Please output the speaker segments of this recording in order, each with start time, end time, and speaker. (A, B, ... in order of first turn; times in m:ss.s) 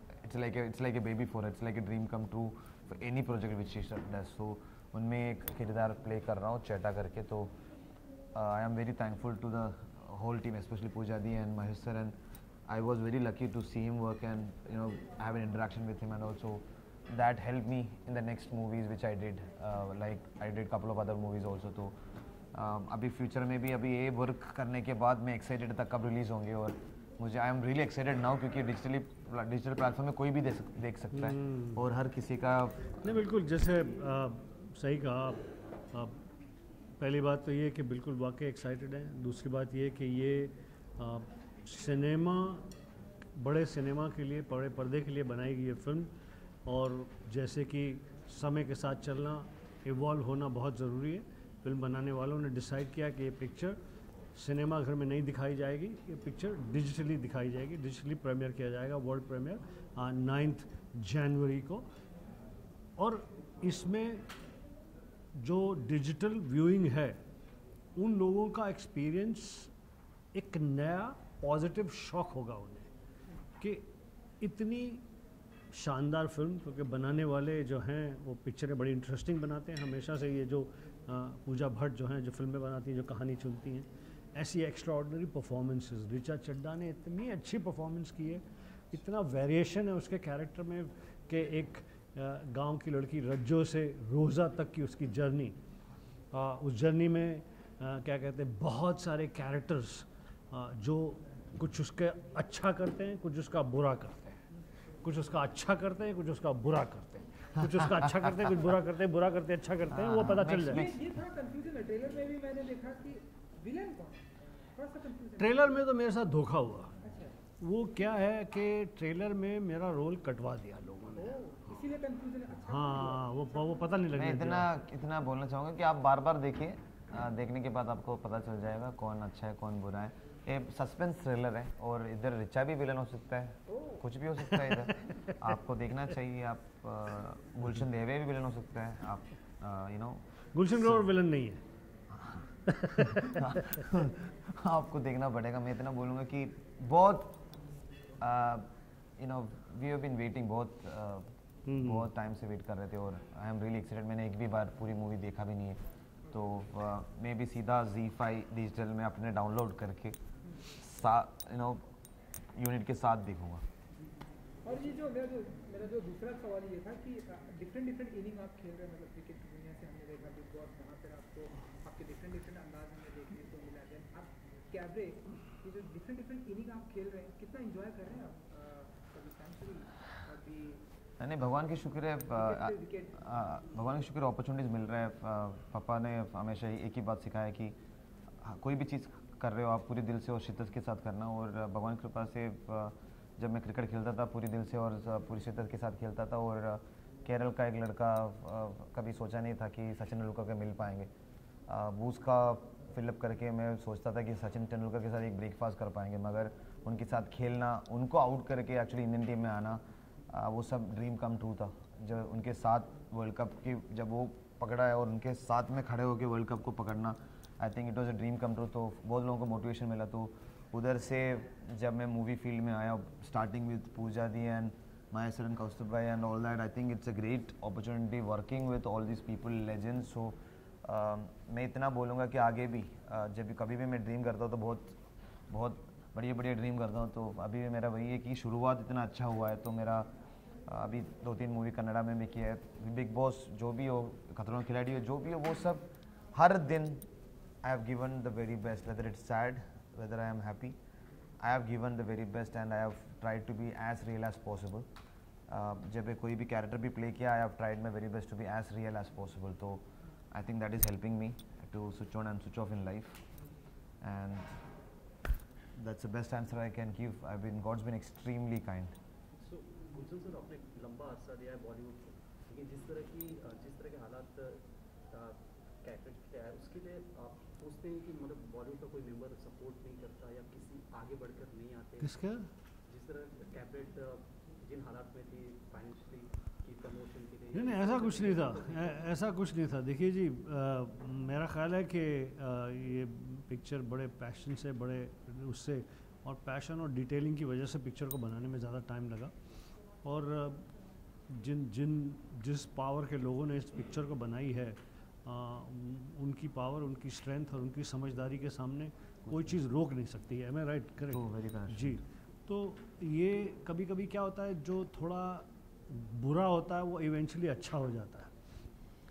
0:00.2-0:07.5 A
0:08.3-0:12.2 A
0:12.7-0:21.9 A
0:22.5-0:33.0 A
0:31.1-0:31.8 B
0:33.0-0:36.2 B
0:37.0-0:42.7 B
0:43.4-0:46.1 B
0:46.7-0:53.8 B
0:54.4-1:01.8 B
1:03.0-1:04.3 B
1:05.4-1:07.2 B
1:08.0-1:09.7 B
1:10.3-1:12.9 B
1:13.6-1:13.9 B
1:14.4-1:15.0 B
1:15.7-1:35.6 B
1:36.3-1:44.4 B
1:45.0-1:50.9 B
1:49.9-1:51.1 A
1:50.6-1:55.8 C
1:55.4-1:56.9 B
1:57.0-1:57.4 C
1:57.6-2:01.4 B
2:01.2-2:03.9 C
2:02.7-2:04.7 B
2:04.2-2:20.2 A
2:13.7-2:14.0 C
2:14.5-2:15.4 B
2:20.5-2:21.6 B
2:22.1-2:22.5 A
2:22.7-2:23.6 B
2:23.2-2:27.4 A
2:28.2-2:35.8 A
2:31.7-2:32.1 B
2:36.3-2:41.8 A
2:42.5-2:43.6 A
2:44.0-3:00.8 C
3:01.2-3:07.8 A
3:02.3-3:03.2 C
3:08.4-3:21.1 A
3:21.7-3:55.0 A
3:55.5-4:00.1 A
4:00.7-4:07.1 A
4:07.6-4:10.8 A
4:11.4-4:14.9 A
4:15.5-4:23.2 A
4:24.0-4:24.6 A
4:25.8-4:29.0 A
4:29.4-4:42.2 D
4:42.0-4:42.5 B
4:42.9-4:49.1 D
4:47.5-4:59.3 B
5:00.0-5:00.7 B
5:01.3-5:18.3 B
5:09.3-5:09.6 A
5:11.1-5:12.0 A